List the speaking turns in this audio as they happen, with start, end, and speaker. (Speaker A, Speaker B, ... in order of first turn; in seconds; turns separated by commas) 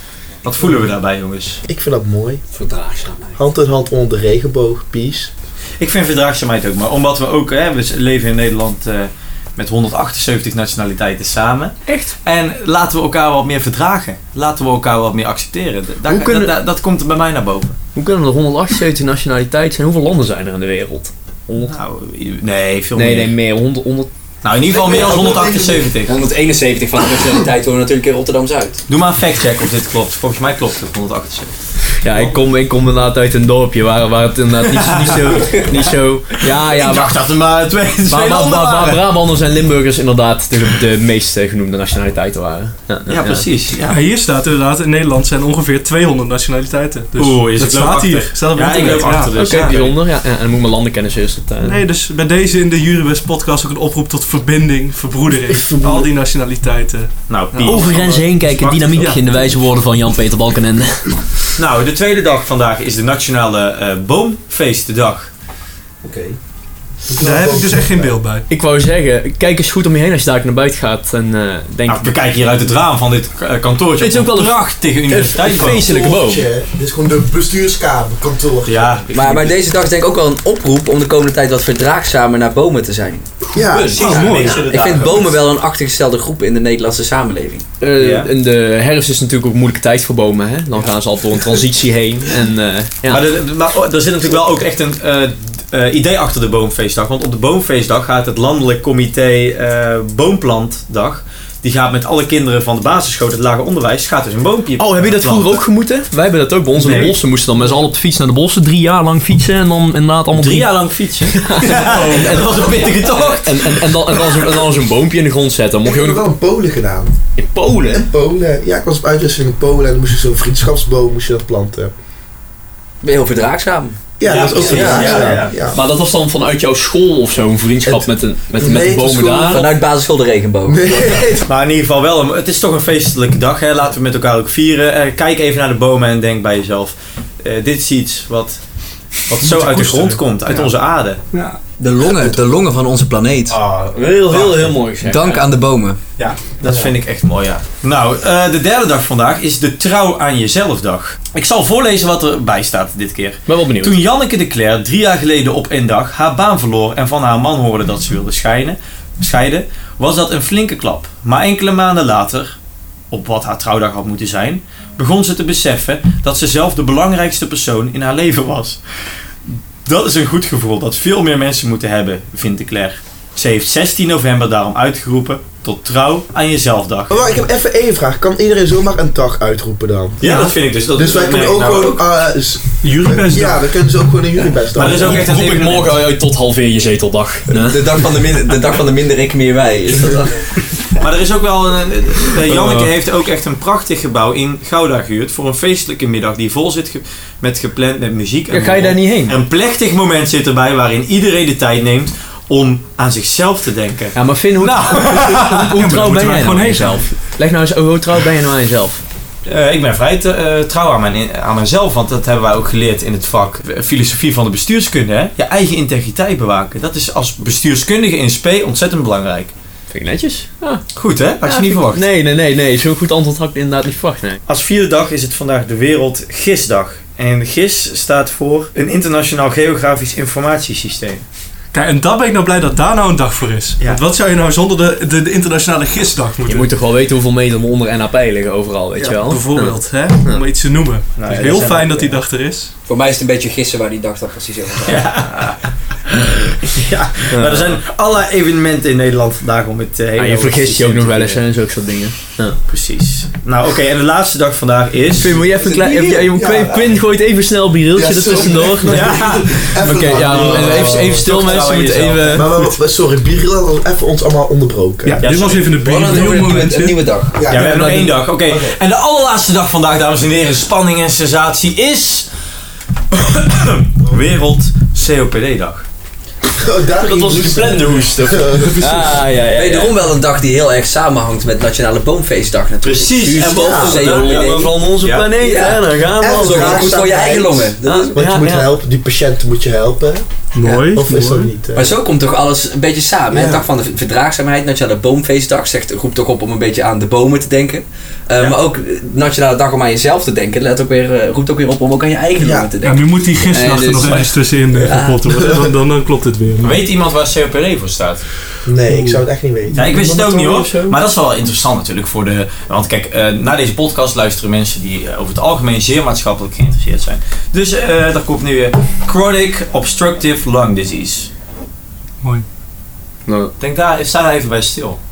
Speaker A: 0.4-1.6, Speaker B: 1.7-2.4, Speaker C: 2.5-3.4, Speaker B: 3.3-5.3, Speaker A: 5.8-17.8, Speaker C: 11.9-12.2, Speaker C: 16.1-16.5, Speaker C: 17.9-21.7, Speaker A: 21.7-23.3, Speaker C: 22.9-24.1, Speaker A: 24.4-26.2, Speaker B: 24.7-25.9, Speaker D: 26.1-28.8, Speaker A: 28.9-31.6, Speaker C: 32.0-37.1, Speaker A: 36.5-39.0, Speaker C: 38.1-43.4, Speaker A: 43.1-44.0, Speaker E: 43.9-49.5, Speaker A: 47.2-49.9, Speaker C: 49.3-51.8, Speaker E: 51.6-57.9, Speaker C: 55.5-56.0, Speaker A: 57.3-59.2, Speaker C: 57.6-61.2, Speaker E: 58.9-59.2, Speaker A: 61.6-65.3, Speaker B: 66.0-66.4, Speaker B: 67.1-68.1, Speaker E: 67.1-68.4, Speaker C: 68.5-72.1, Speaker A: 71.9-75.9, Speaker C: 74.0-76.5, Speaker B: 75.6-79.0, Speaker A: 78.7-79.5, Speaker D: 79.1-83.3, Speaker C: 83.4-84.0, Speaker B: 83.5-84.4, Speaker A: 84.0-85.4, Speaker E: 84.0-84.9, Speaker D: 84.0-87.7, Speaker C: 87.8-93.2, Speaker A: 88.0-88.3, Speaker A: 93.1-105.6, Speaker C: 104.8-110.7, Speaker A: 106.8-107.2, Speaker A: 110.3-113.8, Speaker C: 111.3-112.5, Speaker C: 113.0-116.2, Speaker B: 115.8-117.2, Speaker C: 117.3-118.1, Speaker B: 117.9-121.9, Speaker D: 123.0-124.0, Speaker B: 124.2-125.8, Speaker A: 124.2-125.6, Speaker C: 124.7-129.7, Speaker D: 124.7-125.3, Speaker B: 127.8-129.8, Speaker D: 129.5-131.2, Speaker B: 130.7-131.5, Speaker A: 131.5-138.6, Speaker A: 139.3-141.2, Speaker E: 139.4-140.2, Speaker E: 141.3-141.6, Speaker D: 141.8-143.6, Speaker A: 143.5-144.8, Speaker C: 143.9-145.5, Speaker D: 145.0-146.0, Speaker A: 146.2-162.6, Speaker B: 146.7-146.9, Speaker C: 153.5-154.0, Speaker A: 163.1-168.8, Speaker A: 169.8-177.2, Speaker B: 177.1-185.2, Speaker A: 180.2-182.0, Speaker E: 182.8-183.6, Speaker A: 184.7-186.0, Speaker C: 184.8-187.8, Speaker D: 187.5-190.5, Speaker A: 191.0-205.7, Speaker C: 192.5-192.9, Speaker C: 198.5-199.4, Speaker C: 204.2-209.0, Speaker E: 205.3-207.0, Speaker A: 209.5-219.5, Speaker C: 219.9-220.8, Speaker A: 220.9-222.0, Speaker C: 221.4-224.4, Speaker A: 224.5-231.2, Speaker E: 231.7-236.7, Speaker C: 236.5-240.4, Speaker E: 239.2-242.7, Speaker A: 241.2-242.2, Speaker D: 242.8-245.1, Speaker A: 244.8-251.4, Speaker C: 247.3-247.7, Speaker C: 250.2-252.6, Speaker A: 252.7-255.4, Speaker C: 255.2-259.1, Speaker B: 255.5-257.0, Speaker B: 257.9-261.3, Speaker A: 258.9-262.4, Speaker C: 259.8-262.5, Speaker B: 262.3-265.2, Speaker E: 265.1-267.0, Speaker A: 265.1-266.2, Speaker D: 265.8-267.4, Speaker B: 267.3-268.8, Speaker A: 267.5-272.3, Speaker C: 267.5-268.1, Speaker A: 273.1-275.8, Speaker B: 276.5-279.1, Speaker C: 277.0-279.9, Speaker D: 279.5-284.8, Speaker A: 282.8-285.4, Speaker B: 283.5-284.0, Speaker C: 283.7-287.2, Speaker D: 285.4-288.3, Speaker B: 286.2-291.9, Speaker A: 286.4-287.4, Speaker C: 287.8-288.6, Speaker E: 290.5-291.5, Speaker D: 291.8-305.4, Speaker B: 293.3-293.6, Speaker B: 302.4-302.7, Speaker E: 302.8-306.8, Speaker B: 305.3-305.6, Speaker A: 306.6-308.3, Speaker B: 308.6-310.7, Speaker E: 308.9-309.2, Speaker A: 309.7-321.3, Speaker C: 310.3-310.9, Speaker A: 323.6-325.0